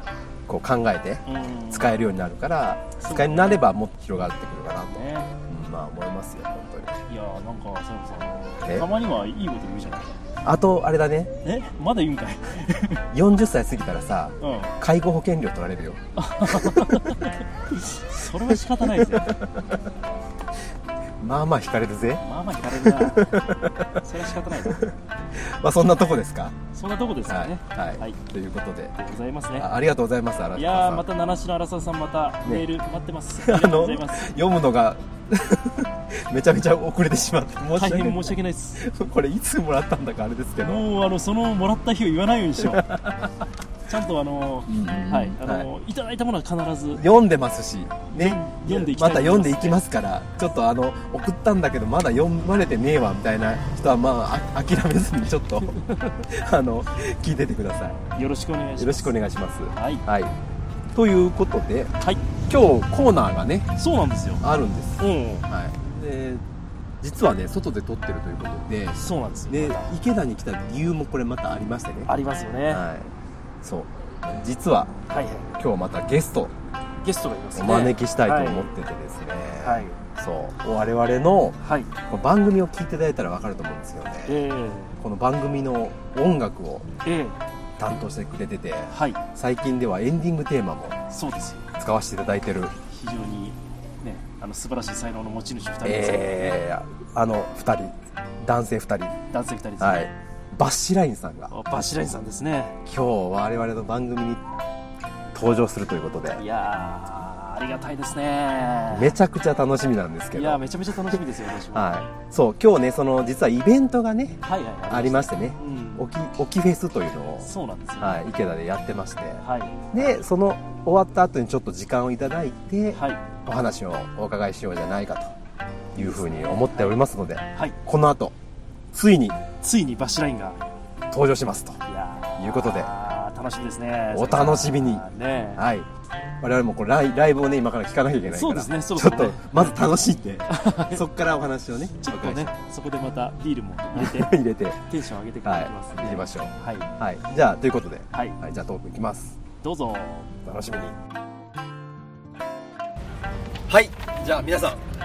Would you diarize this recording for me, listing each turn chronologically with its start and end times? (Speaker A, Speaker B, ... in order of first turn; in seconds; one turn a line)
Speaker A: 0.5-7.0
Speaker B: 1.3-1.9
Speaker B: 3.0-3.7
Speaker B: 4.9-5.3
Speaker B: 7.1-10.2
Speaker A: 10.4-11.3
Speaker B: 11.4-13.0
Speaker A: 13.1-17.1
Speaker B: 14.4-14.7
Speaker B: 16.2-19.4
Speaker A: 18.5-19.8
Speaker A: 21.2-26.6
Speaker B: 22.2-23.4
Speaker B: 24.0-24.8
Speaker B: 26.7-28.2
Speaker A: 27.3-28.9
Speaker B: 29.0-29.7
Speaker A: 29.6-31.1
Speaker B: 30.6-34.4
Speaker A: 33.4-40.9
Speaker B: 37.8-38.8
Speaker B: 40.6-43.0
Speaker A: 42.6-43.5
Speaker B: 43.9-47.0
Speaker A: 44.7-45.7
Speaker A: 47.0-58.0
Speaker B: 48.1-49.8
Speaker B: 58.2-59.1
Speaker A: 58.8-60.4
Speaker B: 59.7-60.0
Speaker A: 60.9-62.0
Speaker A: 62.5-63.7
Speaker B: 63.8-64.4
Speaker A: 64.4-66.4
Speaker B: 65.0-65.5
Speaker A: 67.0-69.0
Speaker B: 69.0-69.9
Speaker A: 69.5-72.1
Speaker B: 72.1-72.8
Speaker A: 72.7-73.1
Speaker A: 73.6-76.5
Speaker B: 75.1-75.4
Speaker B: 77.0-78.7
Speaker A: 77.5-81.6
Speaker B: 79.6-80.0
Speaker B: 81.6-81.9
Speaker A: 82.1-84.4
Speaker B: 84.3-85.0
Speaker A: 85.0-86.9
Speaker B: 87.0-87.4
Speaker A: 87.8-91.0
Speaker B: 88.9-89.2
Speaker B: 91.1-91.7
Speaker A: 91.8-92.7
Speaker B: 92.9-96.6
Speaker A: 95.8-99.2
Speaker B: 99.3-100.1
Speaker A: 99.8-101.5
Speaker B: 101.5-102.8
Speaker A: 102.8-104.4
Speaker A: 105.3-106.4
Speaker B: 106.4-109.2
Speaker A: 108.9-111.2
Speaker B: 110.3-111.9
Speaker A: 111.7-125.3
Speaker B: 114.4-116.1
Speaker B: 117.4-118.2
Speaker B: 119.4-119.8
Speaker B: 122.9-123.2
Speaker A: 126.0-128.3
Speaker B: 126.0-127.0
Speaker A: 128.9-129.4
Speaker B: 129.6-130.6
Speaker A: 131.1-131.8
Speaker B: 131.9-135.6
Speaker A: 132.4-132.9
Speaker A: 134.1-135.9
Speaker A: 136.4-142.5
Speaker B: 138.3-139.6
Speaker B: 140.5-141.0
Speaker B: 142.0-144.3
Speaker A: 143.9-144.8
Speaker B: 144.9-146.9
Speaker A: 145.4-149.4
Speaker B: 148.1-148.4
Speaker B: 149.6-150.3
Speaker A: 150.4-151.0
Speaker A: 153.7-154.8